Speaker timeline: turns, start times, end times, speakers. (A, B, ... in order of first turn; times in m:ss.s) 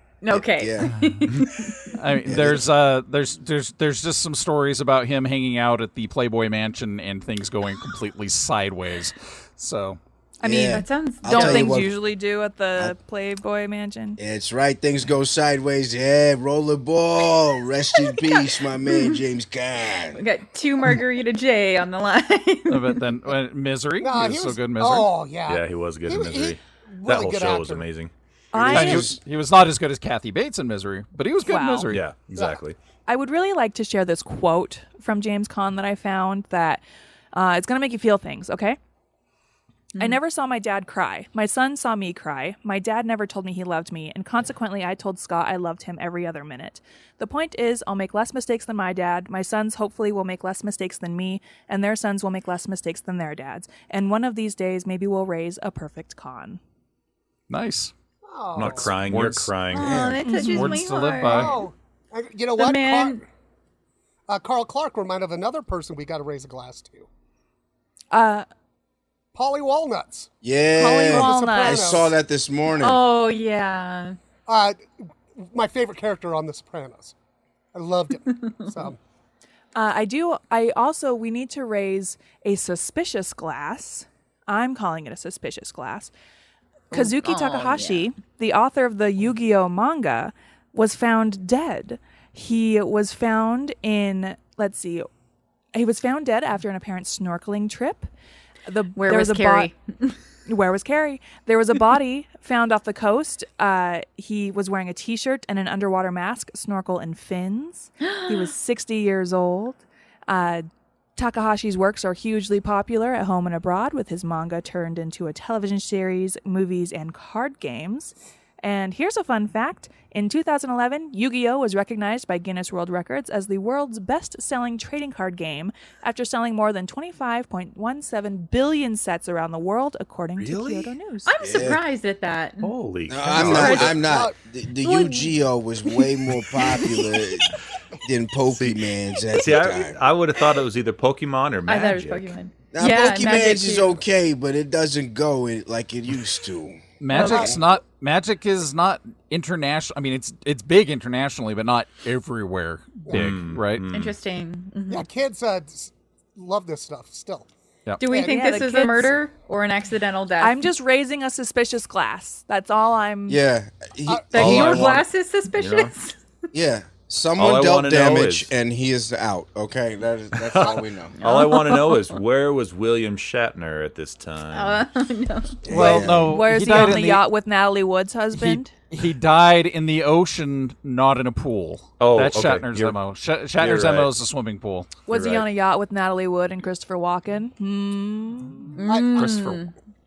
0:00.2-0:01.9 A
0:00.3-0:00.9 B
0:02.0-0:10.0 C
0:02.2-0:02.7 B
0:10.4-0:14.2 D
0:10.4-0:12.0 B
0:10.6-0:11.9 A
0:14.2-0:20.2 B
0:18.8-0:19.2 A
0:20.1-0:23.0 A
0:22.7-0:25.1 C
0:24.0-0:27.9 E
0:25.5-0:28.1 F
0:28.5-0:29.0 D
0:28.5-0:29.2 B
0:28.7-0:32.0 C
0:31.5-0:31.9 D
0:31.9-0:32.8 F
0:33.0-0:36.8 D
0:37.3-0:38.8 D
0:39.9-0:40.2 A
0:40.0-0:56.6 D
0:57.5-0:57.9 C
0:58.2-0:58.9 E
0:58.5-1:00.0 F
0:58.7-0:59.5 C
0:59.7-1:01.6 A
0:59.8-1:00.2 B
1:00.2-1:00.8 D
1:00.4-1:01.6 C
1:01.2-1:03.2 E
1:02.6-1:03.2 A
1:04.3-1:07.1 E
1:08.1-1:08.5 D
1:09.3-1:10.3 E
1:10.4-1:13.0 B
1:10.7-1:12.1 D
1:11.0-1:12.1 E
1:12.8-1:14.2 A
1:14.5-1:14.8 E
1:15.4-1:17.1 E
1:17.7-1:19.0 E
1:19.7-1:26.1 D
1:26.9-1:28.1 A
1:26.9-1:35.1 D
1:35.7-1:38.1 D
1:38.6-1:39.7 D
1:39.0-1:40.1 A
1:40.5-2:11.3 D
1:48.0-1:48.5 A
2:10.4-2:10.9 F
2:11.2-2:12.7 A
2:11.4-2:11.8 B
2:12.6-2:14.1 F
2:13.1-2:20.0 B
2:13.3-2:14.0 A
2:13.6-2:14.3 E
2:16.6-2:16.9 A
2:18.5-2:18.8 F
2:19.3-2:22.4 F
2:21.7-2:24.0 A
2:22.7-2:27.6 B
2:27.0-2:33.9 C
2:27.1-2:27.6 A
2:27.1-2:27.6 E
2:33.1-2:34.2 F
2:33.9-2:35.1 A
2:34.9-2:37.5 E
2:38.0-2:40.6 A
2:38.1-2:38.5 E
2:38.1-2:39.2 D
2:40.4-2:43.4 D
2:43.3-2:45.0 B
2:44.0-2:44.9 E
2:44.3-2:46.2 A
2:44.3-2:45.9 F
2:46.5-2:51.1 B
2:47.4-2:48.5 F
2:50.4-2:54.9 F
2:51.2-2:52.2 A
2:54.5-2:55.6 A
2:55.6-2:56.4 B
2:55.7-2:57.2 C
2:55.8-2:58.7 D
2:58.3-3:05.0 C
3:02.0-3:03.0 F
3:03.6-3:04.1 F
3:05.1-3:08.8 D
3:05.1-3:05.5 F
3:08.8-3:09.7 A
3:08.9-3:09.6 E